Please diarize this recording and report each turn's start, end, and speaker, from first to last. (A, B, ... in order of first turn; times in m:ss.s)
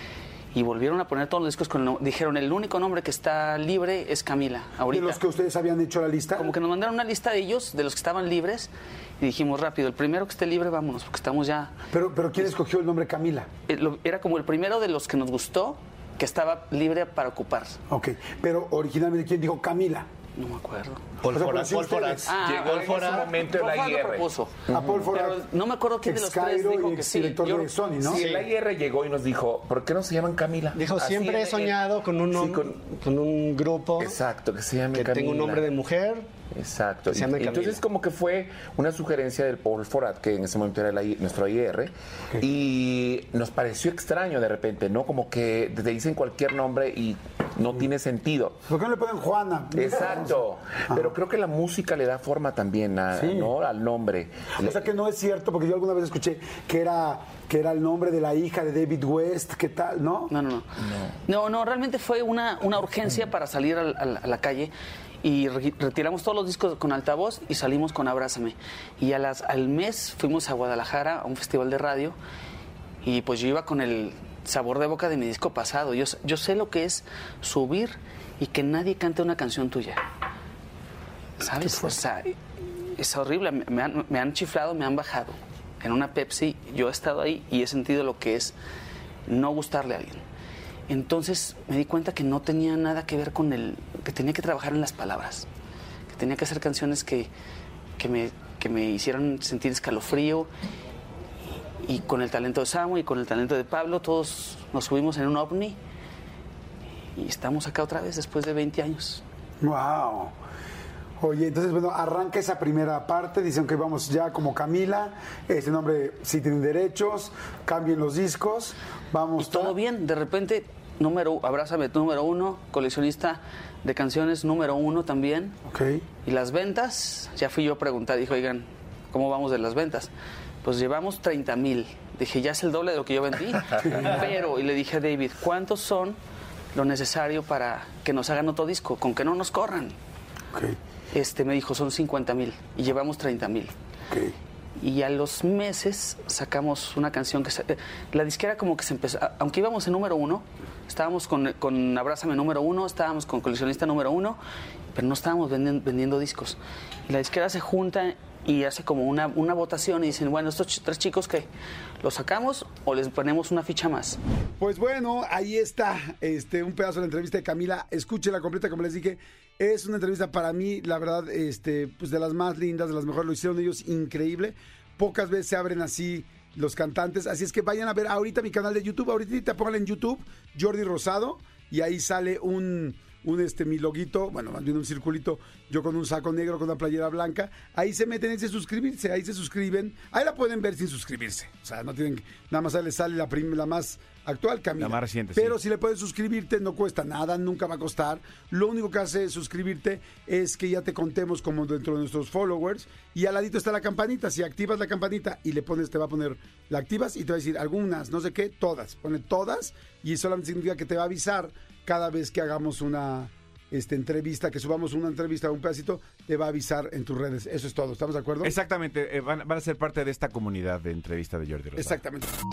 0:00.5-0:05.2 A
0:04.9-0:06.5 B
0:06.3-0:11.7 A
0:11.9-0:13.5 B
0:13.7-0:17.8 A
0:17.9-0:20.1 B
0:20.4-0:21.0 A
0:21.2-0:23.3 C
0:21.3-0:22.3 B
0:22.2-0:24.6 A
0:22.4-0:25.1 D
0:24.7-0:25.4 B
0:25.1-0:27.7 A
0:26.0-0:28.2 B
0:28.0-0:32.8 D
0:28.1-0:28.4 C
0:30.7-0:34.2 C
0:34.0-0:35.7 D
0:34.9-0:36.3 C
0:36.5-0:48.6 D
0:37.1-0:37.8 C
0:48.7-0:51.2 B
0:49.7-0:54.8 D
0:53.1-0:53.5 B
0:54.6-1:00.3 B
1:00.3-1:00.7 A
1:00.8-1:01.1 D
1:01.2-1:12.2 A
1:13.0-1:20.0 A
1:21.4-1:28.6 A
1:21.6-1:21.9 B
1:29.2-1:30.2 A
1:30.9-1:35.5 A
1:36.1-1:37.3 A
1:38.0-1:40.5 A
1:41.8-1:45.8 A
1:47.1-1:49.2 A
1:49.6-1:50.3 B
1:51.2-1:59.8 B
1:59.4-2:05.5 A
2:05.6-2:06.0 B
2:06.2-2:10.1 A
2:10.6-2:16.2 A
2:13.8-2:14.2 B
2:16.7-2:20.0 A
2:21.1-2:23.7 A
2:24.8-2:34.4 A
2:34.9-2:41.5 A
2:42.0-2:44.2 A
2:44.6-3:38.5 B
3:14.8-3:15.6 E
3:38.4-3:42.0 E
3:41.8-3:42.3 B